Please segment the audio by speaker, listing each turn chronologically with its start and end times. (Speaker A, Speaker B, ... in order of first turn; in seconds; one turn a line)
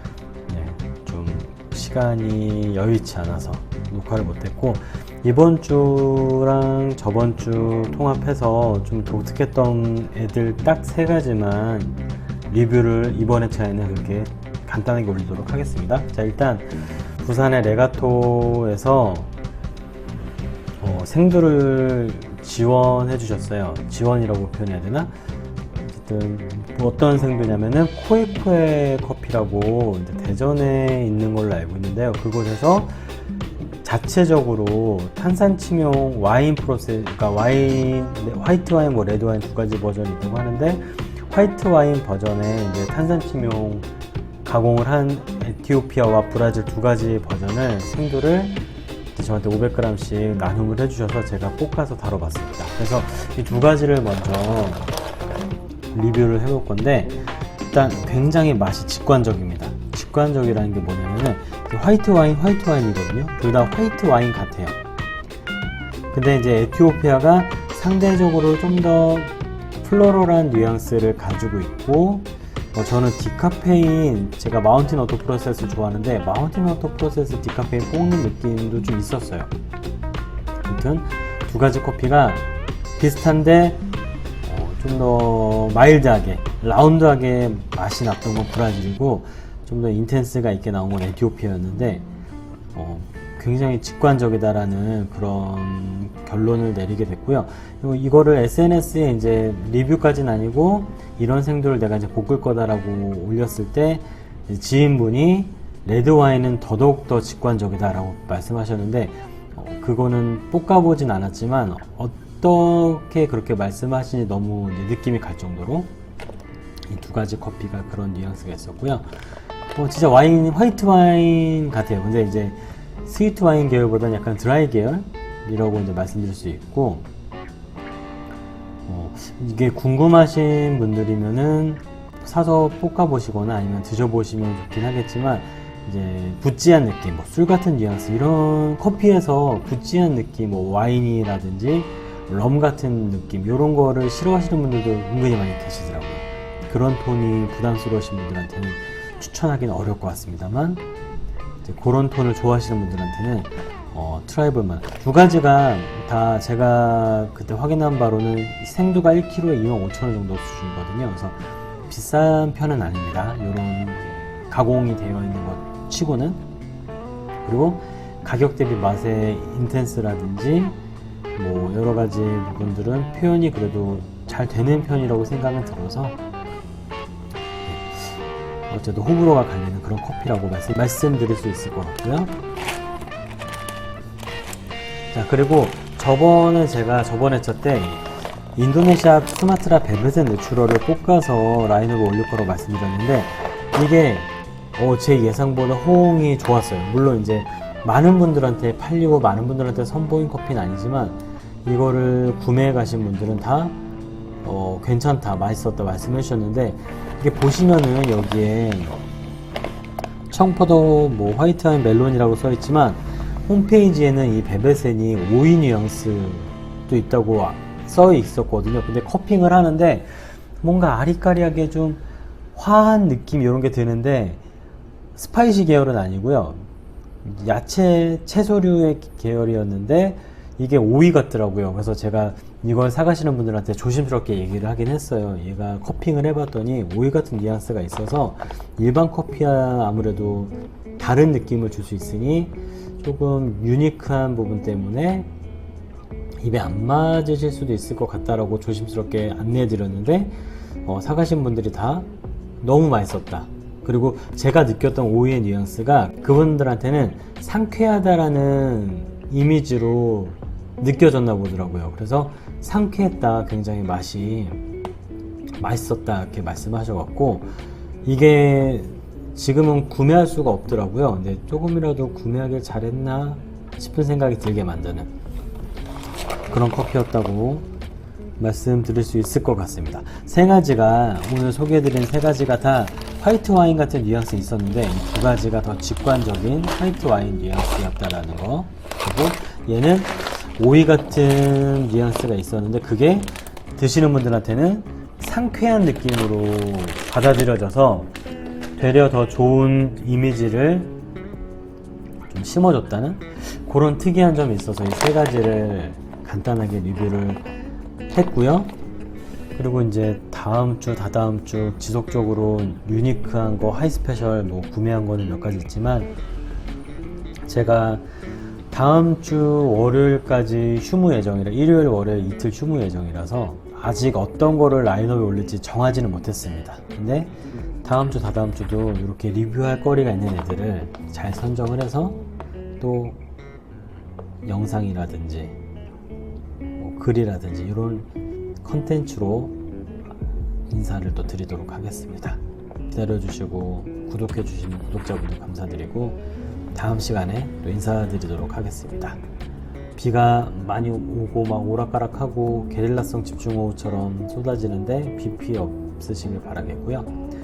Speaker A: 0.5-19.3
Speaker A: 20.8-25.1
Speaker A: 25.9-32.9
Speaker A: 33.8-43.9
Speaker A: 44.4-48.6
Speaker A: 49.1-55.0
Speaker A: 55.9-64.8
Speaker A: 66.1-79.5
Speaker A: 80.7-83.8
Speaker A: 84.4-92.1
Speaker A: 92.7-115.9
Speaker A: 116.9-119.1
Speaker A: 119.7-127.1
Speaker A: 128.9-150.8
Speaker A: 151.6-166.4
Speaker A: 167.4-170.8
Speaker A: 171.3-176.2
Speaker A: 177.7-178.2
Speaker A: 178.7-182.3
Speaker A: 185.1-203.8
Speaker A: 204.4-209.0
Speaker A: 210.3-222.0
Speaker A: 222.5-224.4
Speaker A: 225.2-226.7
Speaker A: 227.2-245.3
Speaker A: 246.4-252.1
Speaker A: 252.6-264.7
Speaker A: 265.6-267.5
Speaker A: 268.0-275.1
Speaker A: 276.5-277.7
Speaker A: 278.4-298.1
Speaker A: 298.8-300.9
Speaker A: 302.3-307.4
Speaker A: 308.1-308.7
Speaker A: 309.6-316.1
Speaker A: 317.4-318.0
Speaker A: 318.7-327.3
Speaker A: 327.8-332.2
Speaker A: 332.8-333.2
Speaker A: 334.4-335.6
Speaker A: 336.8-338.1
Speaker A: 338.6-339.6
Speaker A: 340.7-346.2
Speaker A: 346.7-349.2
Speaker A: 349.9-357.1